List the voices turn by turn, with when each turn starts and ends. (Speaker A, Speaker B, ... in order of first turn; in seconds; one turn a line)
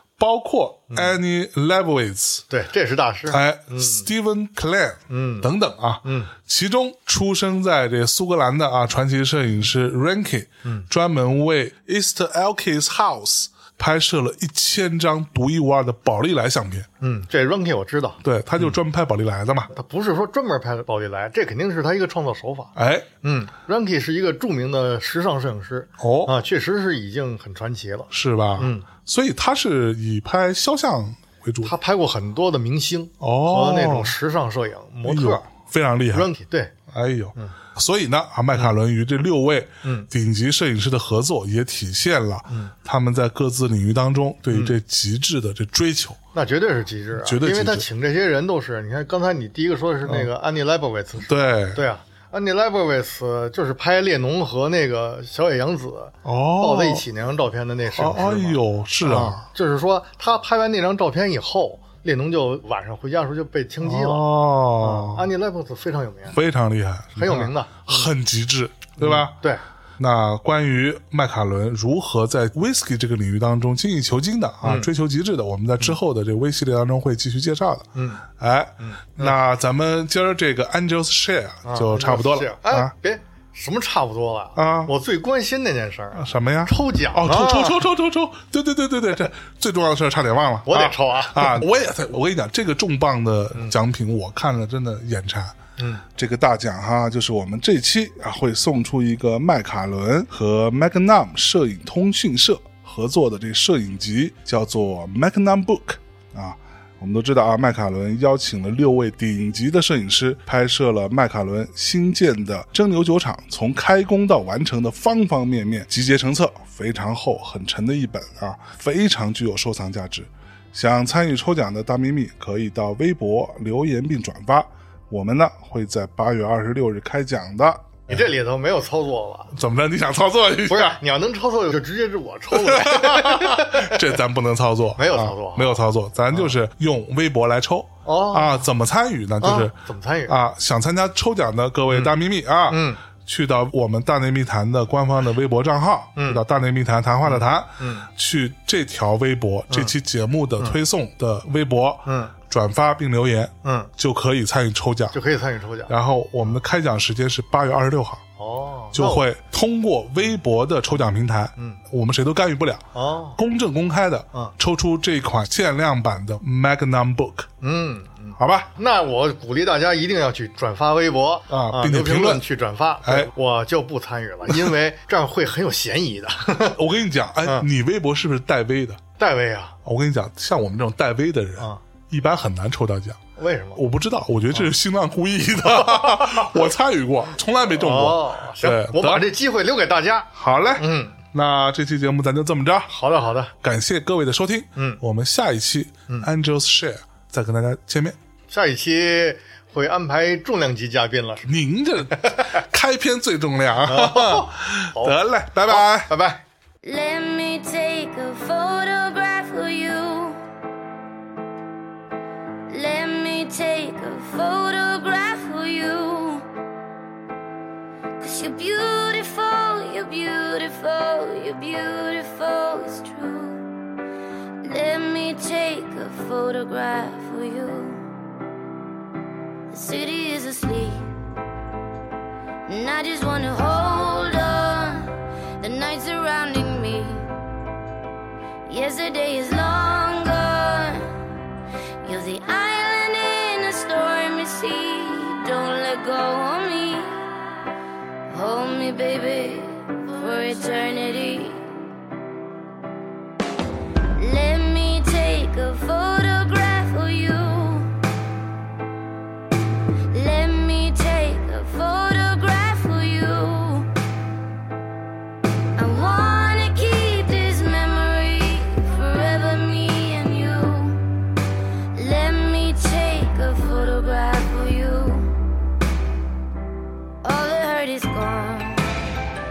Speaker A: 0.2-2.5
Speaker B: 0.9-1.2
Speaker B: 2.5-4.1
Speaker A: 3.3-16.9
Speaker B: 5.1-5.5
Speaker B: 6.0-6.3
Speaker B: 17.0-18.8
Speaker A: 18.2-19.7
Speaker B: 19.7-28.9
Speaker A: 22.8-23.1
Speaker A: 26.0-26.3
Speaker A: 28.1-31.7
Speaker B: 31.6-35.5
Speaker A: 33.2-34.1
Speaker A: 35.1-36.3
Speaker B: 36.1-36.7
Speaker A: 36.9-46.2
Speaker B: 39.8-40.1
Speaker B: 42.5-42.7
Speaker B: 44.5-44.8
Speaker B: 46.3-64.3
Speaker A: 47.2-47.9
Speaker A: 51.3-51.8
Speaker A: 56.2-57.0
Speaker A: 57.9-59.5
Speaker A: 63.8-65.3
Speaker B: 64.8-66.4
Speaker A: 66.3-69.3
Speaker B: 67.2-68.1
Speaker B: 69.0-69.6
Speaker A: 70.0-82.9
Speaker B: 74.6-74.9
Speaker B: 78.0-78.2
Speaker B: 78.8-79.4
Speaker B: 81.7-87.8
Speaker A: 84.6-84.9
Speaker A: 86.2-95.5
Speaker B: 90.7-91.6
Speaker B: 95.8-96.0
Speaker A: 96.2-128.2
Speaker B: 128.1-129.5
Speaker A: 129.5-131.0
Speaker B: 130.7-134.1
Speaker A: 132.5-139.8
Speaker B: 135.0-136.6
Speaker B: 138.1-138.7
Speaker B: 139.4-140.4
Speaker A: 140.3-155.2
Speaker B: 142.7-143.0
Speaker B: 146.2-146.4
Speaker B: 147.2-148.1
Speaker B: 149.7-149.9
Speaker B: 152.1-152.3
Speaker B: 153.6-153.9
Speaker B: 155.1-156.6
Speaker A: 155.9-158.2
Speaker B: 158.4-159.3
Speaker A: 158.9-162.8
Speaker B: 162.9-163.4
Speaker A: 163.4-167.5
Speaker B: 167.6-176.8
Speaker A: 168.4-168.7
Speaker A: 171.5-172.4
Speaker A: 173.1-173.3
Speaker A: 176.7-179.0
Speaker B: 179.2-179.8
Speaker A: 179.8-183.2
Speaker B: 183.4-183.8
Speaker A: 183.8-189.3
Speaker B: 185.8-186.4
Speaker B: 187.8-191.2
Speaker A: 190.3-192.9
Speaker B: 192.9-193.5
Speaker A: 193.6-198.2
Speaker B: 194.8-195.0
Speaker B: 198.5-201.5
Speaker A: 201.5-206.1
Speaker B: 203.8-206.4
Speaker C: 206.8-210.4
Speaker C: 212.7-216.5
Speaker C: 218.2-223.6
Speaker C: 224.6-228.0
Speaker C: 229.7-231.1
Speaker C: 232.7-237.3
Speaker C: 238.7-241.2
Speaker C: 242.0-247.3
Speaker C: 248.3-251.7
Speaker C: 254.2-258.0
Speaker C: 260.1-263.9
Speaker C: 265.8-271.1
Speaker C: 271.9-275.4
Speaker C: 277.2-279.0